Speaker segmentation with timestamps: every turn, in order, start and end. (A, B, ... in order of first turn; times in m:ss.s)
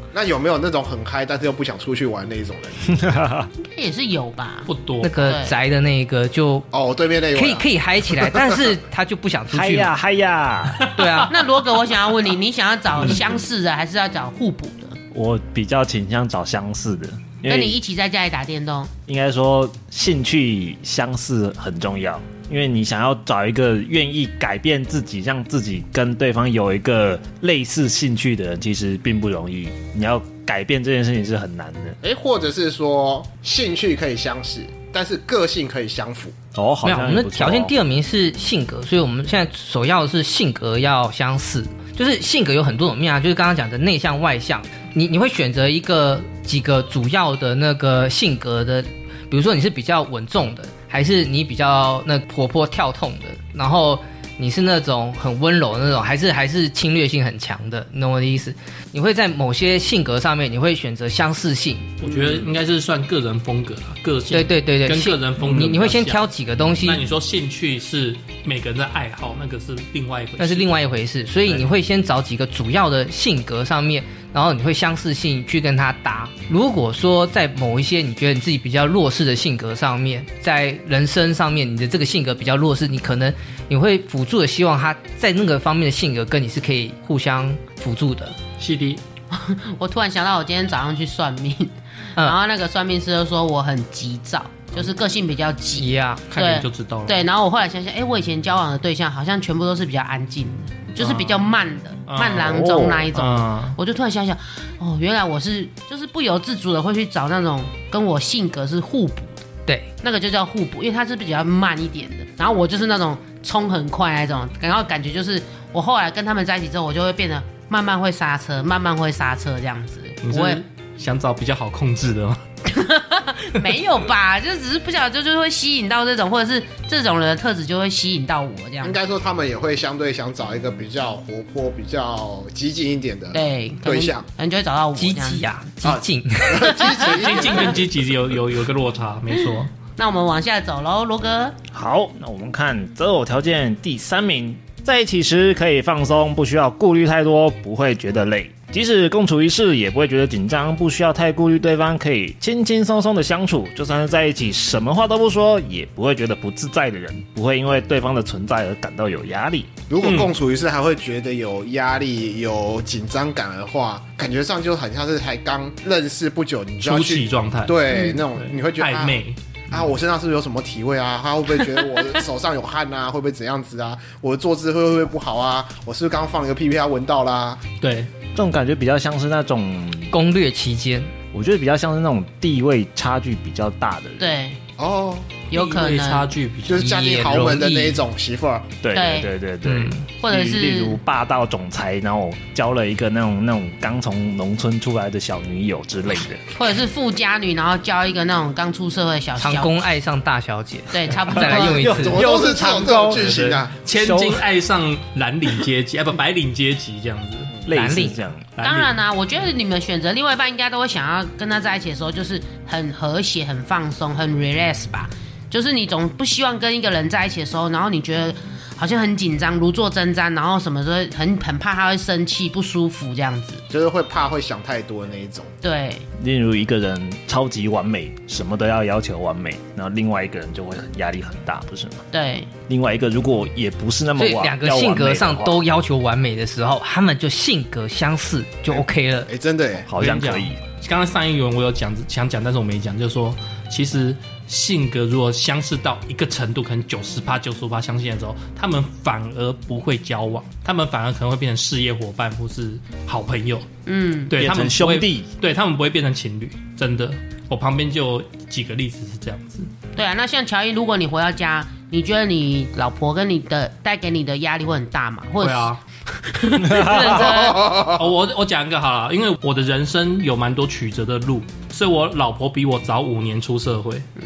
0:00.1-0:03.0 A
0:02.9-0:03.5 B
0:03.6-0:05.6 C
0:04.7-0:05.2 D
0:05.0-0:06.7 E
0:06.7-0:08.7 A
0:07.3-0:09.9 E
0:09.5-0:10.9 B
0:10.8-0:11.3 D
0:10.9-0:11.3 E
0:11.3-0:15.0 C
0:15.1-0:17.8 B
0:17.5-0:18.9 C
0:19.1-0:32.0 B
0:32.0-0:36.4 A
0:36.5-0:37.7 B
0:36.8-1:02.0 E
1:02.0-1:10.7 D
1:04.3-1:07.0 E
1:10.4-1:28.4 E
1:28.6-1:29.0 D
1:29.3-1:49.4 C
1:35.8-1:36.3 E
1:36.3-1:37.2 D
1:41.0-1:41.4 D
1:42.1-1:43.8 D
1:42.5-1:43.1 B
1:50.0-2:00.6 C
2:00.2-2:02.4 D
2:02.6-2:09.0 C
2:08.8-2:14.2 A
2:13.3-2:15.4 C
2:15.0-2:17.0 E
2:15.8-2:17.8 A
2:17.0-2:19.7 D
2:20.0-2:21.6 C
2:21.7-2:39.8 B
2:39.9-2:57.6 A
2:40.0-2:40.3 D
2:46.8-2:47.8 D
2:47.9-2:48.2 C
2:48.3-2:49.4 D
2:57.8-2:58.1 D
2:58.3-3:00.1 B
3:00.1-3:01.1 E
3:01.3-3:04.3 B
3:04.2-3:04.6 C
3:04.8-3:05.3 A
3:05.5-3:06.9 D
3:05.5-3:06.3 C
3:06.6-3:08.7 A
3:06.8-3:08.0 E
3:08.8-3:16.4 B
3:08.9-3:09.3 C
3:09.6-3:10.0 E
3:10.2-3:11.0 C
3:16.5-3:19.7 C
3:19.4-3:22.3 E
3:20.9-3:22.0 C
3:21.5-3:23.3 B
3:21.9-3:23.7 A
3:23.0-3:27.6 D
3:23.9-3:24.4 B
3:27.7-3:28.5 B
3:27.7-3:28.2 E
3:28.6-3:29.0 D
3:28.6-3:43.6 C
3:43.7-3:45.5 A
3:45.6-3:46.0 C
3:46.2-3:52.0 B
3:52.1-3:52.5 C
3:52.7-3:55.6 B
3:54.2-3:59.3 E
3:58.7-3:59.9 A
3:59.9-4:00.6 B
4:00.0-4:13.7 D
4:13.8-4:14.3 C
4:14.3-4:19.7 D
4:14.3-4:15.3 B
4:19.9-4:27.9 C
4:25.4-4:25.8 D
4:26.6-4:27.2 B
4:27.4-4:34.1 D
4:27.6-4:27.9 A